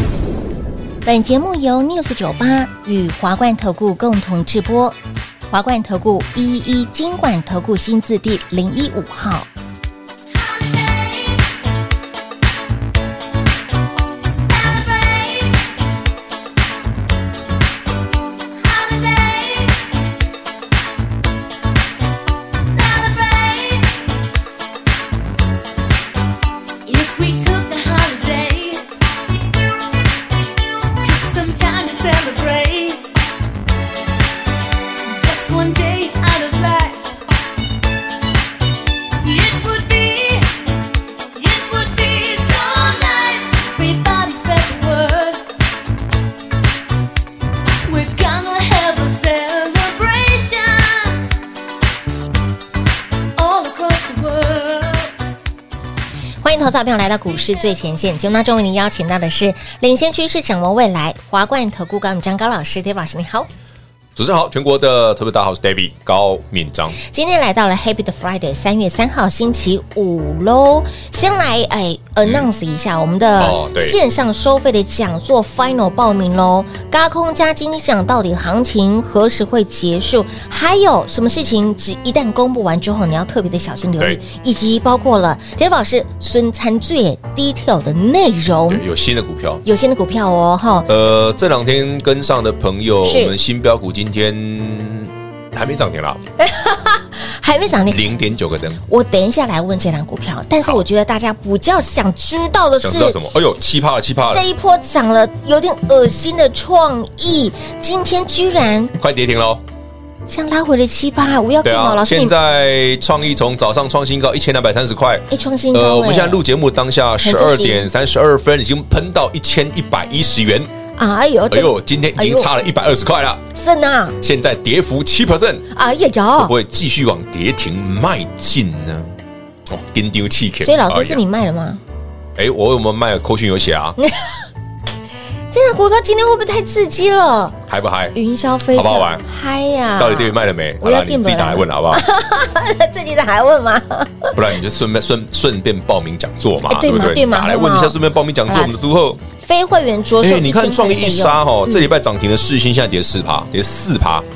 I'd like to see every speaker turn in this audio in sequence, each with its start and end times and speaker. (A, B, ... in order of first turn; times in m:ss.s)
0:01.0-0:05.0 A
0:05.5-0:09.5 A
0:10.3-0:11.5 B
0:14.5-0:15.6 B
0:18.6-0:19.9 B
0:22.6-0:24.0 B
0:26.9-0:28.8 B
0:31.0-0:33.1 B
0:35.0-0:37.1 B
0:39.2-0:40.6 B
0:41.3-0:45.4 B
0:47.8-0:51.3 B
0:53.4-0:55.1 B
0:56.4-1:03.5 A
1:04.2-1:07.0 C
1:07.0-1:28.8 A
1:13.4-1:14.0 C
1:28.7-1:29.6 C
1:29.6-1:30.9 A
1:30.9-1:36.2 C
1:33.0-1:33.3 A
1:36.4-1:38.1 A
1:37.8-1:38.8 C
1:38.9-1:43.2 A
1:42.8-1:44.4 C
1:44.3-1:48.9 A
1:49.0-1:49.6 C
1:50.3-1:52.3 A
1:51.6-2:00.7 C
1:55.3-1:56.4 A
1:57.2-1:57.9 A
2:01.0-2:02.5 A
2:01.5-2:03.4 C
2:03.5-2:04.2 A
2:04.2-2:05.6 C
2:05.7-2:06.5 A
2:06.4-2:09.1 C
2:09.7-2:11.2 C
2:10.6-2:11.8 A
2:12.4-2:14.0 C
2:14.0-2:14.4 A
2:15.5-2:17.6 A
2:17.7-2:18.2 C
2:18.2-2:24.4 A
2:18.7-2:19.2 C
2:20.0-2:22.0 C
2:24.4-2:29.2 C
2:26.7-2:28.8 A
2:29.3-2:31.9 A
2:30.2-2:34.3 C